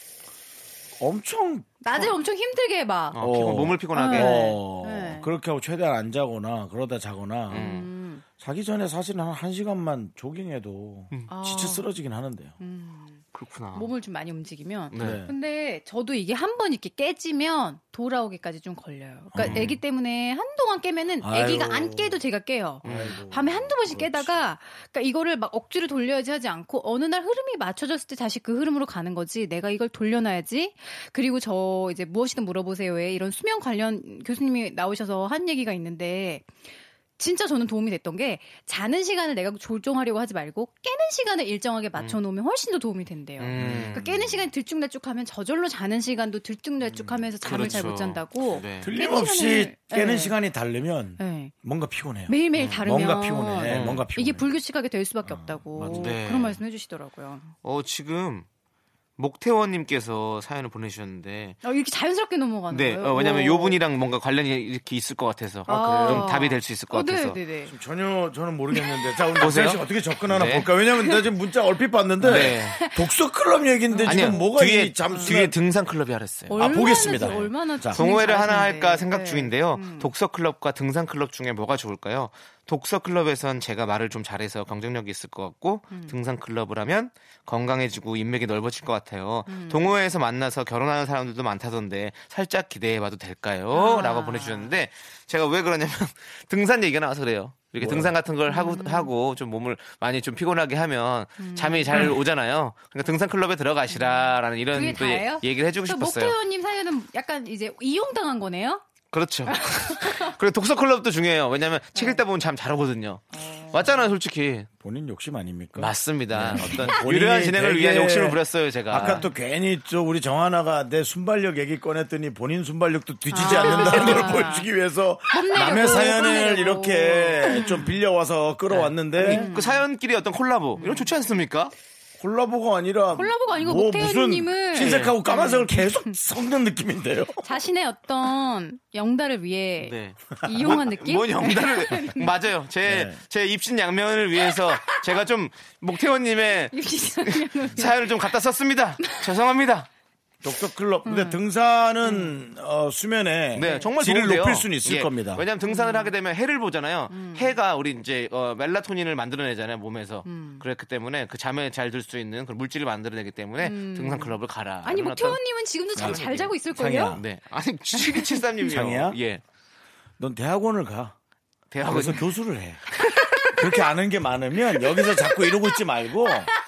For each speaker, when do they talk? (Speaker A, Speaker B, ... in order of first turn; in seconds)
Speaker A: 1.0-2.1, 3.2-7.7, 8.4-12.5, 15.0-15.3, 19.3-19.7, 21.2-22.2, 22.8-24.5, 43.6-44.2, 46.8-47.8, 48.8-54.5, 55.2-56.1, 65.7-66.4, 67.7-75.5, 76.5-78.0, 97.8-98.1, 114.8-129.5, 132.2-137.4, 142.8-143.2, 150.4-155.4, 165.9-167.2, 168.7-169.2, 170.2-171.1, 171.8-172.9, 173.5-176.5
Speaker B: 1.8-3.2, 3.9-5.3, 7.5-8.2, 11.3-11.9, 12.6-36.5, 37.2-50.4, 51.2-51.5, 52.3-57.5, 61.6-63.8, 65.7-67.7, 68.7-69.1, 72.3-73.1, 73.9-74.5, 75.1-75.5, 76.5-80.1, 85.9-86.2, 89.5-89.9, 93.7-94.8, 98.5-99.1, 101.4-102.1, 103.9-108.8, 109.5-110.4, 111.9-112.2, 113.3-114.1, 116.6-116.9, 119.0-119.3, 123.3-124.7, 125.3-128.0, 129.2-129.9, 130.8-131.1, 133.1-136.1, 137.4-142.4, 144.7-145.0, 146.7-148.3, 149.0-149.3, 151.0-151.4, 152.0-152.3, 153.6-153.9, 155.6-156.1, 157.1-157.6, 160.2-160.6, 163.6-167.2, 167.9-168.4, 173.2-173.7, 174.8-175.6
Speaker C: 3.1-4.5, 7.5-7.9, 13.3-13.9, 14.9-15.2, 19.4-19.8, 22.8-23.2, 43.4-44.3, 47.4-48.9, 52.5-53.0, 53.6-54.1, 55.9-56.6, 57.6-58.5, 59.2-61.6, 62.7-67.4, 69.4-70.7, 72.2-72.8, 74.0-76.7, 77.9-106.4, 109.1-114.7, 115.8-119.2, 123.4-124.3, 128.7-131.7, 134.8-135.2, 139.8-149.9, 153.5-165.4, 165.9-166.5, 167.1-169.4, 171.7-172.2